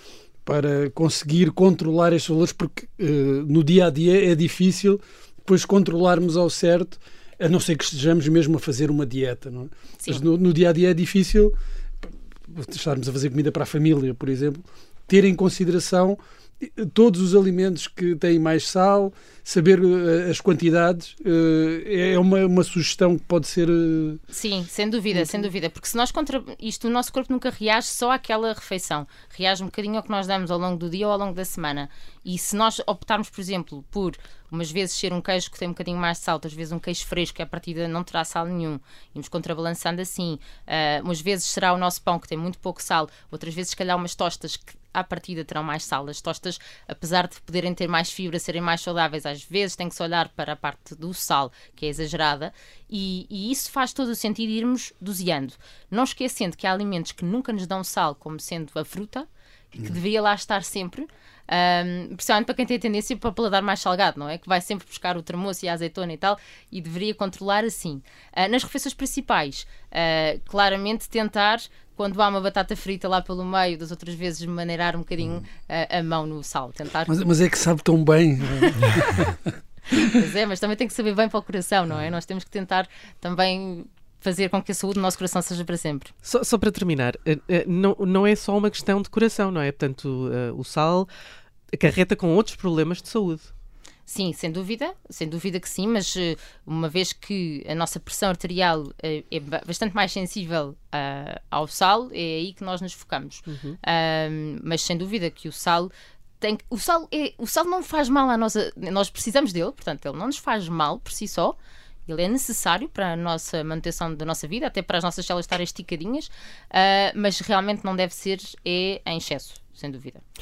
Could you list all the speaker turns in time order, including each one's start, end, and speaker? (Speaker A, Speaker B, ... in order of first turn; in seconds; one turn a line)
Speaker A: 0.5-11.5
Speaker A: 12.5-24.2
Speaker B: 24.3-77.1
Speaker A: 25.1-25.4
Speaker A: 77.1-79.5
Speaker B: 80.0-86.1
Speaker C: 86.2-91.1
Speaker C: 91.7-93.5
Speaker B: 94.1-105.9
Speaker C: 103.5-103.8
Speaker B: 106.4-120.2